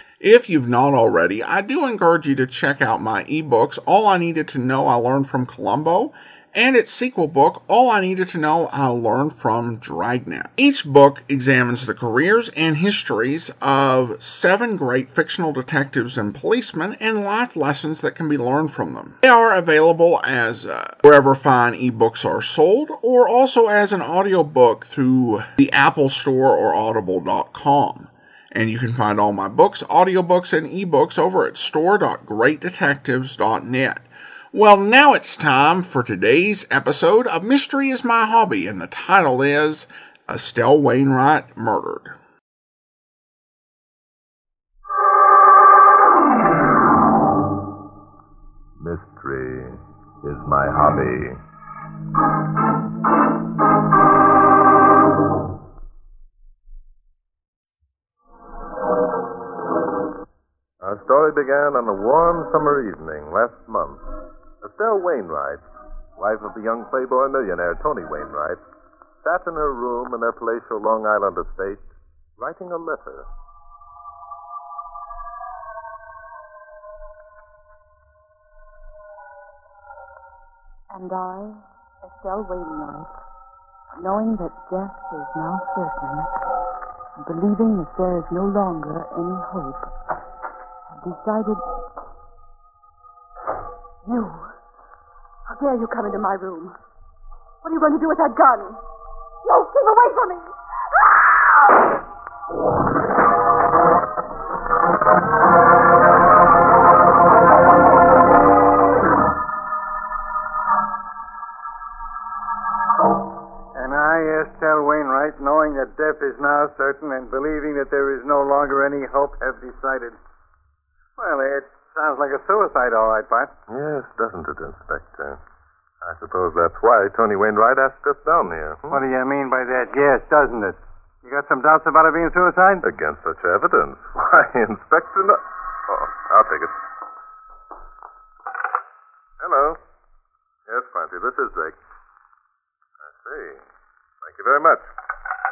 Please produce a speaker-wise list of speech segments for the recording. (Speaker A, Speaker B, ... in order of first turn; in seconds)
Speaker A: 0.2-42.1
Speaker B: 48.8-51.4, 60.8-64.0, 64.6-65.7, 66.2-68.6, 69.2-73.3, 123.7-125.4, 126.0-129.0, 132.8-136.8, 139.4-139.8, 140.7-141.8, 143.1-143.6, 144.2-144.9
Speaker C: 80.9-83.1, 83.9-86.3, 87.2-89.9, 90.9-91.6
Speaker D: 94.0-94.5, 95.5-96.8, 97.6-98.8, 99.4-101.5
Speaker E: 113.7-120.2, 121.2-123.5, 128.9-132.9